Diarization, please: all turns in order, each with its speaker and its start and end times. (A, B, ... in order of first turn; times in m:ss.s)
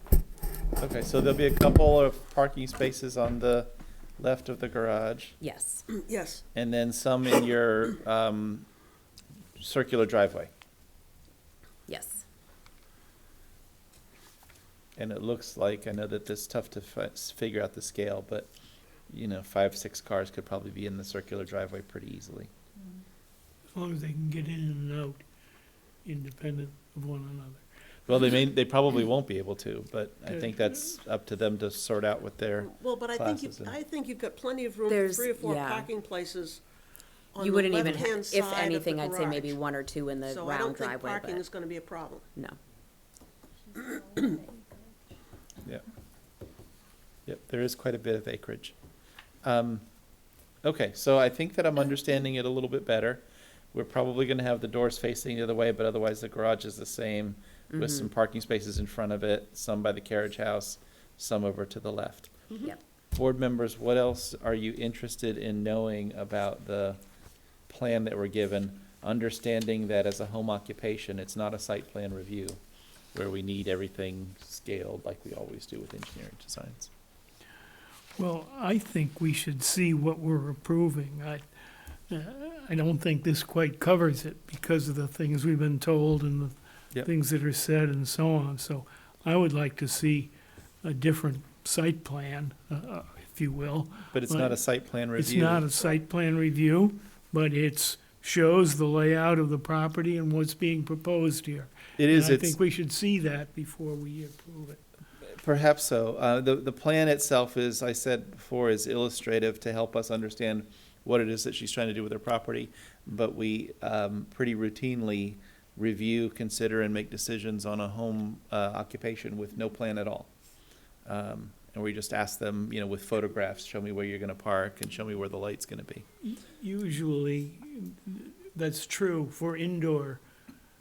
0:00.8-0:05.4 A
0:05.4-0:05.8 B
0:05.9-0:06.4 C
0:06.5-0:08.7 A
0:09.6-0:10.5 A
0:11.9-0:12.2 B
0:15.0-0:18.5 A
0:19.1-0:22.5 A
0:23.7-0:25.2 D
0:26.0-0:27.6 D
0:28.1-0:33.8 A
0:30.3-0:30.8 D
0:32.6-0:36.6 C
0:34.9-0:35.9 B
0:37.3-0:39.6 C
0:37.4-0:41.4 B
0:40.2-0:42.2 C
0:47.2-0:48.7 A
0:49.4-0:49.8 A
0:50.6-1:02.3 A
0:57.7-0:58.1 B
1:03.1-1:07.0 A
1:07.7-1:12.6 A
1:13.1-1:16.9 A
1:18.1-1:21.5 D
1:22.1-1:34.6 D
1:34.1-1:35.6 A
1:35.2-1:44.8 D
1:42.0-1:42.6 A
1:45.2-2:00.3 A
2:01.0-2:06.0 A
2:06.2-2:10.2 D